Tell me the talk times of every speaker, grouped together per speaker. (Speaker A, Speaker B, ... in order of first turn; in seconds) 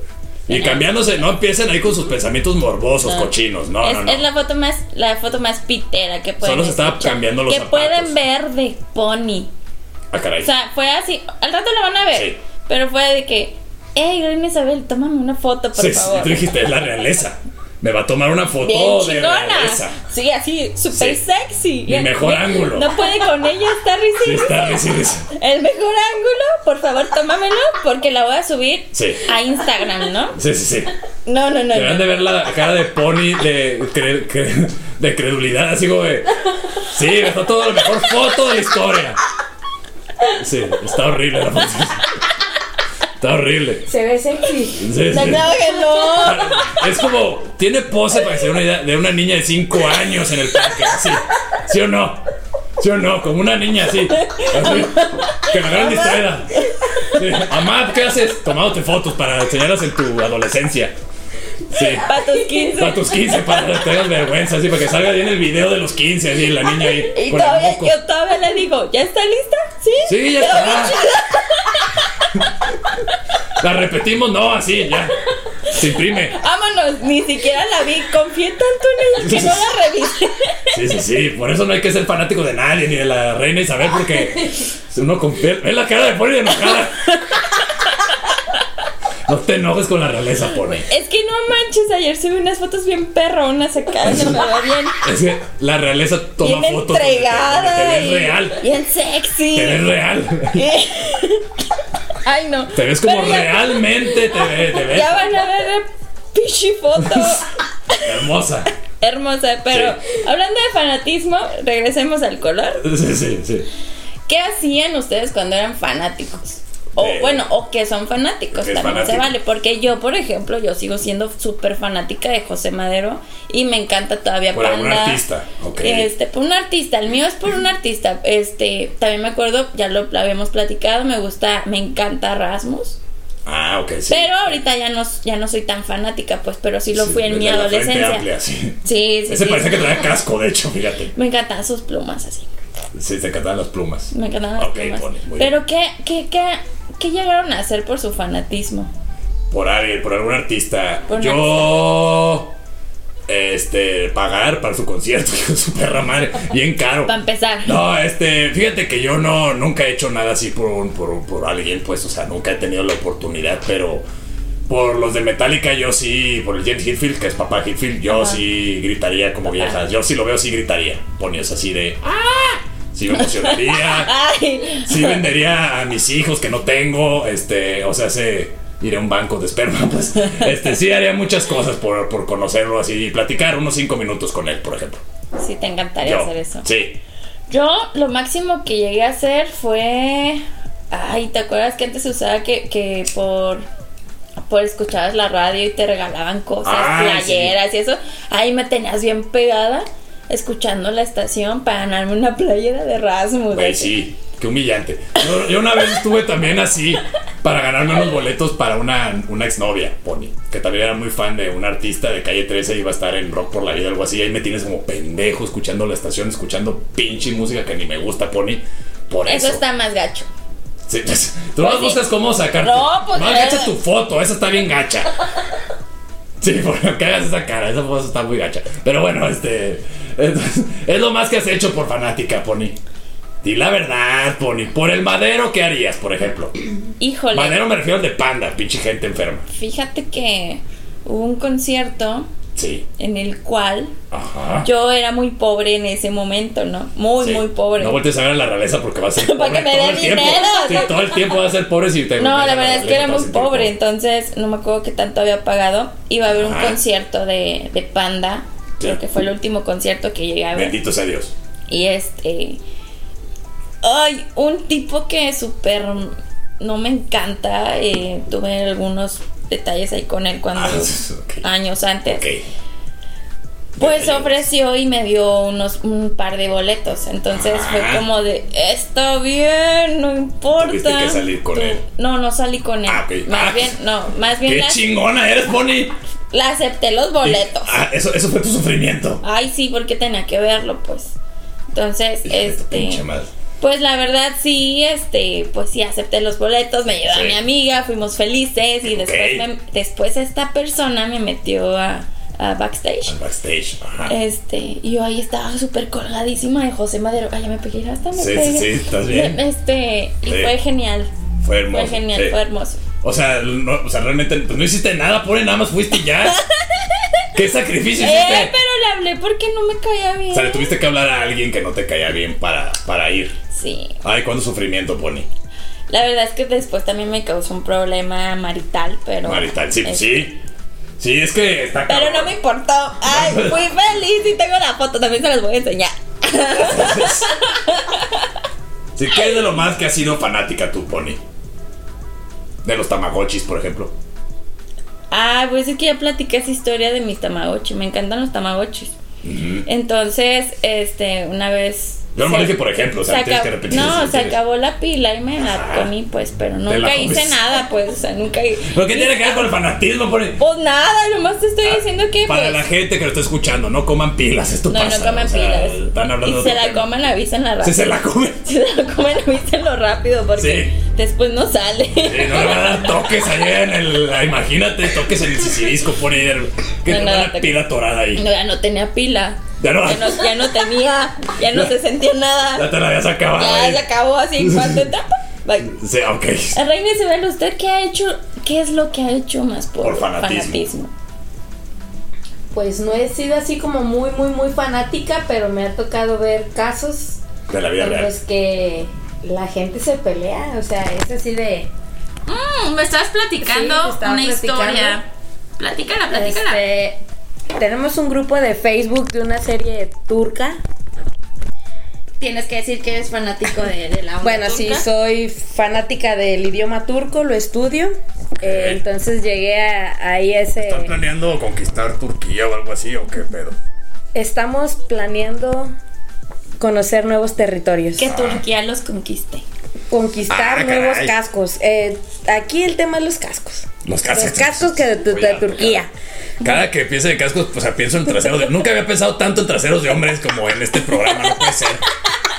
Speaker A: 0.5-0.8, 3.0-9.5, 10.4-16.4, 18.6-30.4, 31.2-32.1, 45.1-46.8, 54.1-57.2, 61.7-63.2, 67.1-72.0, 76.3-80.7, 90.8-95.0, 96.4-99.8, 100.5-101.5, 102.2-108.1, 109.0-112.8, 114.3-125.2, 125.8-133.0, 134.1-138.2, 138.8-140.0, 141.1-142.5, 144.1-148.9, 151.1-151.8, 157.1-157.8, 168.1-168.4, 173.2-175.2, 185.4-186.7, 187.5-193.7, 194.4-203.9, 219.2-220.3, 221.6-222.0, 222.6-223.7, 237.0-237.6, 239.5-242.3, 243.0-243.9, 244.6-248.0, 249.2-251.4, 252.2-260.8, 261.7-262.6, 263.8-272.2, 273.8-284.8, 286.3-287.7, 289.2-291.1, 291.7-293.0, 293.6-303.1, 304.1-311.1, 311.7-312.8, 318.0-320.7, 323.5-323.9, 325.9-330.1, 331.9-338.3, 345.1-348.9, 349.6-359.4, 360.4-362.6, 364.7-367.9, 368.4-372.8, 376.9-377.6, 378.1-382.7, 383.4-385.7, 386.5-390.9, 402.3-405.1, 405.6-406.6, 412.2-414.9, 428.0-429.4
Speaker B: 0.5-4.3, 6.4-8.1, 10.1-10.5, 12.1-12.4, 15.8-19.9, 20.9-21.2, 21.9-22.9, 24.2-25.3, 28.9-29.2, 30.3-30.9, 31.7-39.2, 40.2-42.1, 43.2-43.9, 44.8-45.5, 46.1-52.2, 52.8-56.5, 57.1-60.9, 61.7-67.9, 70.0-71.0, 73.6-75.2, 75.7-76.4, 79.2-79.7, 80.7-87.3, 89.2-90.9, 94.0-94.4, 95.0-98.6, 99.5-100.7, 102.7-105.2, 107.0-107.4, 108.0-108.7, 109.7-110.0, 112.8-113.7, 117.0-117.5, 118.5-119.3, 124.5-126.1, 133.4-134.6, 136.9-141.1, 142.9-145.5, 149.5-152.5, 153.3-157.1, 157.6-164.0, 164.7-174.1, 174.9-185.0, 186.0-187.0, 196.6-197.5, 203.5-219.6, 220.9-225.1, 226.4-232.8, 233.4-236.6, 237.3-239.5, 242.5-242.8, 244.1-244.7, 247.2-253.7, 256.3-256.8, 260.5-261.3, 270.5-271.4, 272.1-272.4, 273.8-274.4, 277.3-278.1, 280.6-281.8, 282.9-283.7, 284.4-285.9, 287.2-289.2, 292.2-293.3, 297.0-297.4, 298.8-299.4, 303.1-304.1, 308.1-309.4, 310.2-310.5, 311.4-312.4, 313.0-316.4, 317.3-318.5, 320.3-323.4, 324.0-325.3, 329.2-330.4, 331.0-332.3, 333.0-333.6, 336.5-337.3, 338.9-341.2, 342.6-343.9, 349.2-349.6, 352.1-354.4, 355.4-355.9, 356.7-357.4, 358.6-360.4, 361.6-366.9, 367.6-368.4, 370.4-370.7, 372.1-378.2, 379.6-380.3, 382.5-383.8, 384.4-384.9, 385.6-386.6, 389.8-390.6, 397.5-398.1, 418.4-418.8, 420.6-423.6, 428.1-428.4, 430.3-431.1, 433.8-435.8, 436.4-441.8
Speaker C: 43.9-44.9, 392.5-397.2, 397.8-401.7, 403.4-405.0, 406.1-407.0, 407.5-410.6, 414.2-420.9, 424.1-425.7, 426.6-428.1, 429.9-435.9